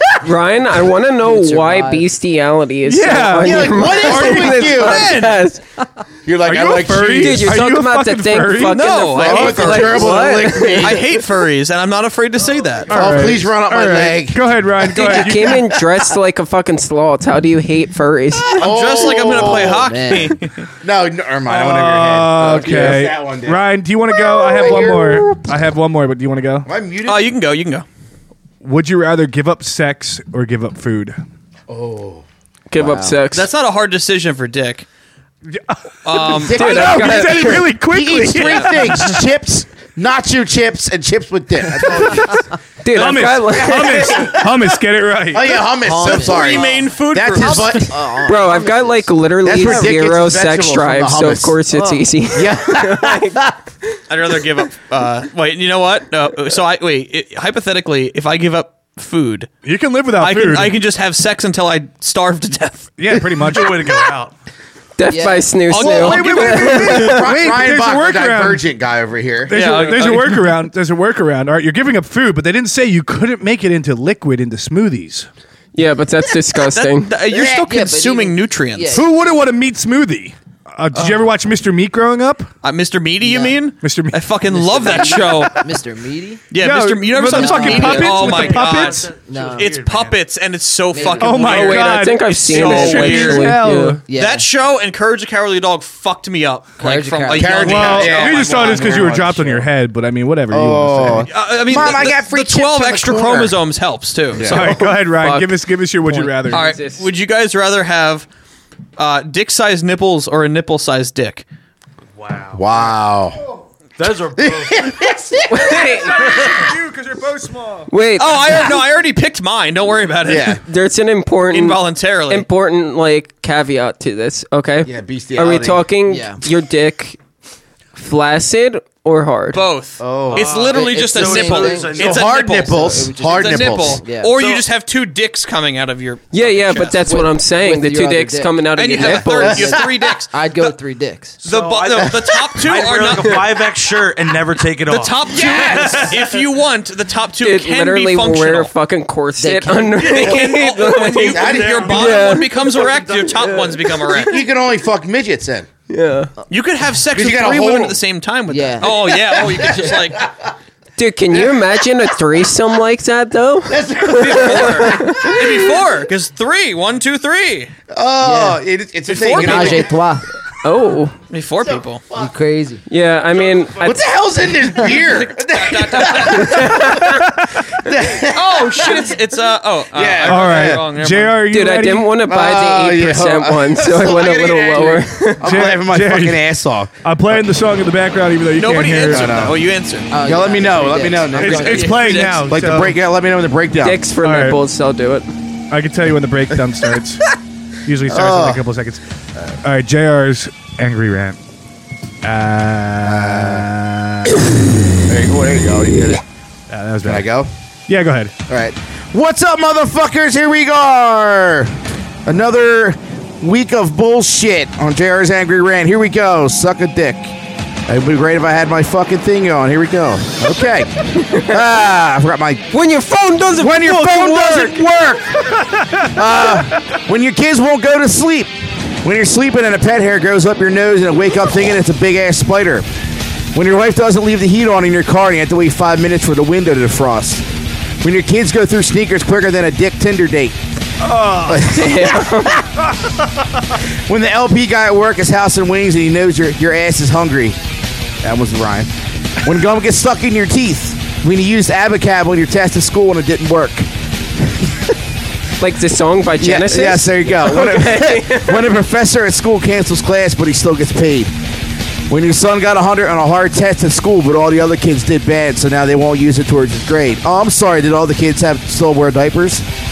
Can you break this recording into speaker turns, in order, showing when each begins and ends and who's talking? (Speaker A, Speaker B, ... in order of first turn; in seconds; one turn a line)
Speaker A: 0.2-5.6
Speaker B: 1.2-2.1
Speaker C: 2.9-4.8
Speaker D: 3.4-5.2
Speaker E: 4.7-5.4
Speaker D: 6.2-7.6
Speaker C: 6.4-8.8
Speaker A: 7.1-11.1
Speaker E: 8.6-13.1
Speaker D: 9.1-11.1
Speaker C: 12.9-15.7
Speaker D: 12.9-15.6
Speaker A: 14.9-18.7
Speaker D: 18.5-19.9
Speaker E: 18.6-20.6
Speaker B: 19.3-20.4
Speaker D: 20.8-23.6
Speaker C: 21.5-26.7
Speaker D: 24.3-25.4
Speaker D: 26.6-27.3
Speaker E: 27.1-27.9
Speaker C: 28.6-31.2
Speaker D: 31.7-32.2
Speaker A: 32.7-33.5
Speaker B: 32.8-33.2
Speaker E: 33.3-34.9
Speaker C: 35.5-39.2
Speaker E: 36.0-36.9
Speaker D: 36.1-42.4
Speaker A: 36.5-37.7
Speaker E: 38.3-39.1
Speaker A: 42.8-44.3
Speaker C: 42.9-45.6
Speaker D: 43.5-44.6
Speaker D: 45.3-48.0
Speaker B: 45.8-49.9
Speaker E: 45.9-47.9
Speaker A: 48.2-53.4
Speaker D: 49.4-51.6
Speaker B: 51.7-52.0
Speaker D: 52.3-53.5
Speaker E: 54.1-59.5
Speaker C: 59.6-60.8
Speaker E: 60.2-62.9
Speaker C: 63.0-63.9
Speaker F: 63.5-64.3
Speaker A: 65.0-67.3
Speaker B: 65.1-65.5
Speaker E: 65.7-66.9
Speaker D: 65.8-69.6
Speaker C: 66.0-68.6
Speaker C: 69.5-75.3
Speaker E: 69.5-70.5
Speaker A: 75.8-77.2
Speaker E: 76.6-79.0
Speaker D: 77.3-77.7
Speaker B: 77.4-79.2
Speaker C: 78.9-82.5
Speaker E: 82.6-85.6
Speaker B: 83.2-83.6
Speaker C: 83.8-84.2
Speaker B: 84.5-86.4
Speaker E: 86.5-93.6
Speaker C: 86.6-89.1
Speaker B: 87.3-88.2
Speaker F: 87.8-90.2
Speaker B: 89.3-89.7
Speaker B: 90.9-91.8
Speaker C: 91.2-94.0
Speaker A: 91.3-94.0
Speaker B: 94.1-94.5
Speaker E: 94.1-99.0
Speaker B: 96.8-99.5
Speaker D: 97.3-99.6
Speaker C: 97.6-101.3
Speaker D: 100.5-103.6
Speaker E: 101.3-104.8
Speaker D: 104.3-104.7
Speaker C: 104.5-106.7
Speaker A: 105.0-107.1
Speaker E: 106.5-108.3
Speaker E: 109.0-111.5
Speaker F: 112.2-113.0
Speaker D: 112.5-113.4
Speaker F: 114.0-115.0
Speaker D: 114.4-116.2
Speaker A: 115.5-116.6
Speaker C: 115.8-117.9
Speaker A: 117.9-118.8
Speaker E: 118.2-120.6
Speaker D: 120.2-120.6
Speaker A: 120.6-127.2
Speaker E: 121.5-122.5
Speaker D: 124.8-125.8
Speaker B: 126.1-126.4
Speaker A: 128.0-129.6
Speaker E: 129.5-137.0
Speaker D: 130.0-130.5
Speaker F: 130.3-132.4
Speaker B: 130.7-132.1
Speaker D: 132.0-134.0
Speaker B: 132.6-134.3
Speaker F: 134.4-134.7
Speaker A: 136.3-139.8
Speaker B: 137.0-141.4
Speaker E: 138.8-140.7
Speaker D: 139.5-139.8
Speaker E: 141.4-143.5
Speaker F: 141.4-146.4
Speaker E: 144.9-148.7
Speaker D: 145.3-146.2
Speaker A: 147.4-152.6
Speaker B: 149.4-150.0
Speaker F: 150.0-153.9
Speaker E: 150.1-154.4
Speaker D: 151.2-152.2
Speaker D: 154.0-155.7
Speaker A: 155.9-156.3
Speaker E: 156.5-160.3
Speaker D: 157.1-158.0
Speaker B: 158.5-159.0
Speaker D: 158.8-160.3
Speaker A: 161.0-165.4
Speaker D: 163.7-165.7
Speaker E: 164.2-167.7
Speaker D: 167.9-169.9
Speaker B: 168.2-168.6
Speaker E: 169.1-169.9
Speaker B: 169.3-170.2
Speaker A: 170.6-171.2
Speaker E: 171.3-172.1
Speaker D: 171.6-172.3
Speaker B: 172.1-172.8
Speaker A: 172.9-174.0
Speaker F: 173.3-173.7
Speaker D: 173.8-179.2
Speaker E: 174.8-176.8
Speaker A: 176.2-177.3
Speaker C: 177.1-177.6
Speaker E: 178.3-181.4
Speaker D: 179.9-180.8
Speaker C: 180.3-182.1
Speaker A: 181.4-185.5
Speaker D: 182.3-186.9
Speaker C: 185.4-186.4
Speaker C: 187.0-189.5
Speaker E: 188.6-190.1
Speaker D: 189.1-189.6
Speaker B: 190.1-192.1
Speaker D: 190.2-194.0
Speaker C: 191.4-193.0
Speaker E: 191.4-192.5
Speaker A: 193.8-195.3
Speaker C: 194.2-194.6
Speaker C: 195.7-197.2
Speaker C: 197.8-199.0
Speaker D: 198.1-198.6
Speaker C: 199.6-201.4
Speaker C: 202.2-204.4
Speaker D: 203.0-203.7
Speaker D: 205.1-206.2
Speaker C: 206.7-207.3
Speaker D: 207.1-207.5
Speaker C: 207.9-208.3
Speaker D: 208.5-211.7
Speaker D: 212.3-217.3
Speaker D: 217.9-222.7
Speaker A: 222.7-224.8
Speaker D: 223.6-225.4
Speaker C: 225.6-226.1
Speaker D: 226.0-228.5
Speaker D: 229.0-232.8
Speaker D: 233.5-237.4
Speaker D: 238.0-240.6
Speaker C: 241.0-241.8
Speaker D: 241.4-243.0
Speaker A: 241.7-242.6
Speaker D: 243.8-247.6
Speaker D: 248.2-253.9
Speaker D: 254.4-254.7
Speaker A: 255.6-258.7
Speaker D: 256.4-261.3
Speaker D: 262.1-269.6